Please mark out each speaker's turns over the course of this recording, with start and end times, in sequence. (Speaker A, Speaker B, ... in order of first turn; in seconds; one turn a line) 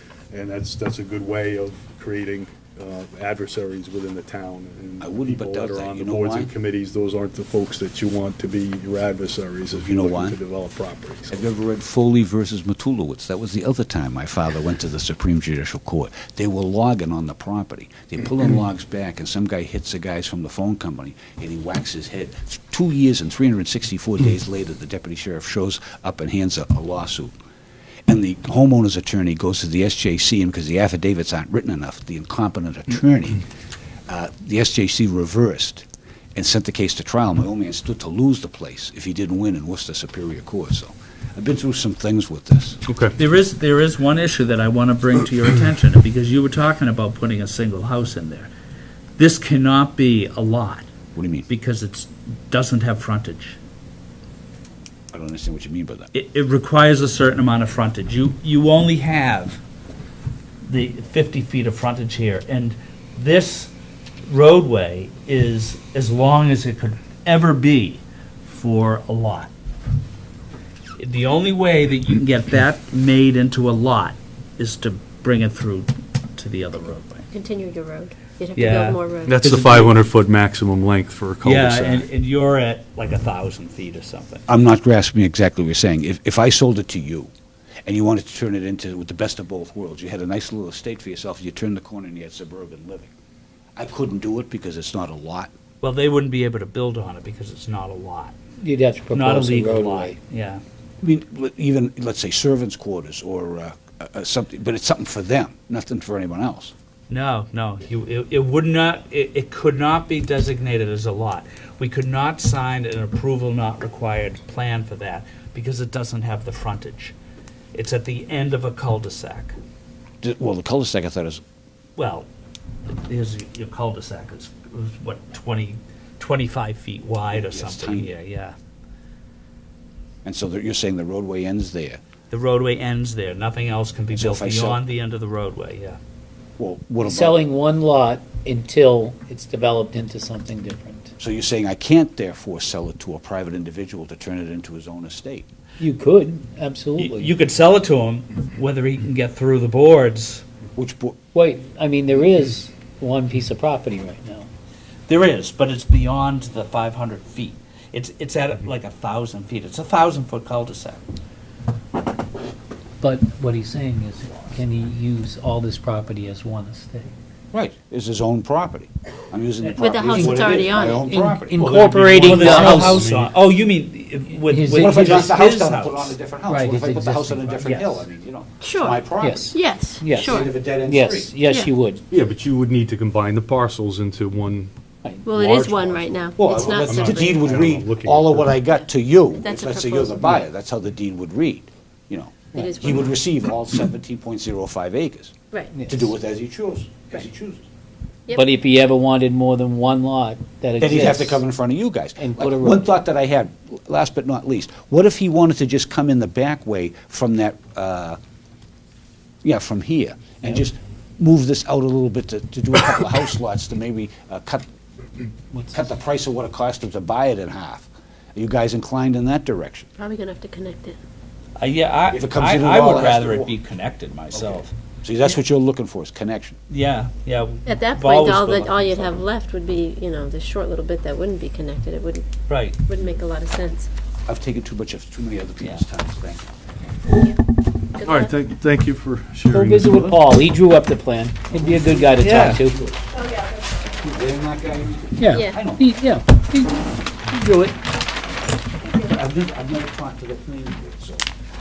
Speaker A: 0.3-11.4
Speaker B: 5.0-6.5
Speaker B: 9.7-10.4
Speaker B: 11.3-27.3
Speaker B: 28.1-33.4
Speaker B: 34.1-42.8
Speaker A: 42.9-43.1
Speaker C: 43.2-48.5
Speaker C: 49.2-50.9
Speaker B: 51.1-51.5
Speaker C: 51.5-53.6
Speaker B: 55.1-56.1
Speaker C: 56.1-59.6
Speaker C: 60.6-63.7
Speaker C: 64.2-69.5
Speaker C: 71.0-77.2
Speaker D: 77.3-79.4
Speaker C: 78.5-79.9
Speaker A: 79.2-82.1
Speaker C: 81.4-84.4
Speaker B: 84.5-87.3
Speaker B: 87.8-93.1
Speaker B: 93.8-95.5
Speaker C: 95.8-98.3
Speaker E: 98.6-100.2
Speaker C: 99.1-100.6
Speaker B: 101.0-106.7
Speaker C: 107.1-117.1
Speaker C: 117.7-119.5
Speaker B: 120.2-121.4
Speaker C: 122.0-122.2
Speaker C: 122.9-128.5
Speaker B: 127.3-128.1
Speaker B: 130.2-132.0
Speaker C: 132.3-136.0
Speaker B: 134.1-134.8
Speaker B: 136.6-137.4
Speaker E: 137.0-141.1
Speaker B: 141.2-145.4
Speaker E: 145.8-147.3
Speaker C: 147.0-150.4
Speaker B: 150.8-151.2
Speaker E: 151.3-154.5
Speaker C: 155.1-161.0
Speaker E: 163.0-167.1
Speaker B: 167.5-171.8
Speaker E: 169.7-173.1
Speaker D: 169.8-171.1
Speaker C: 171.6-176.2
Speaker A: 171.6-173.3
Speaker E: 174.4-175.3
Speaker B: 174.7-179.5
Speaker E: 176.5-177.8
Speaker D: 178.6-180.5
Speaker E: 179.2-182.0
Speaker B: 180.1-181.3
Speaker D: 181.4-181.7
Speaker A: 182.1-184.7
Speaker D: 185.2-187.7
Speaker A: 185.3-188.5
Speaker B: 186.4-195.3
Speaker D: 189.4-190.4
Speaker D: 192.5-193.2
Speaker E: 195.7-196.1
Speaker B: 195.9-197.7
Speaker D: 198.3-198.5
Speaker E: 198.3-201.4
Speaker B: 200.8-208.2
Speaker E: 202.2-202.9
Speaker B: 209.4-214.7
Speaker E: 215.5-215.9
Speaker B: 215.7-219.9
Speaker D: 220.0-221.0
Speaker C: 221.6-224.7
Speaker B: 222.1-223.6
Speaker B: 224.3-226.6
Speaker C: 226.7-229.2
Speaker D: 227.7-233.9
Speaker C: 232.5-232.8
Speaker B: 234.2-236.5
Speaker D: 237.1-237.4
Speaker D: 237.9-238.3
Speaker A: 238.0-240.2
Speaker E: 239.5-242.8
Speaker B: 241.5-243.1
Speaker C: 242.2-242.6
Speaker D: 243.1-244.0
Speaker B: 244.0-245.9
Speaker E: 245.2-247.8
Speaker D: 245.3-245.6
Speaker D: 248.8-249.1
Speaker B: 248.9-251.3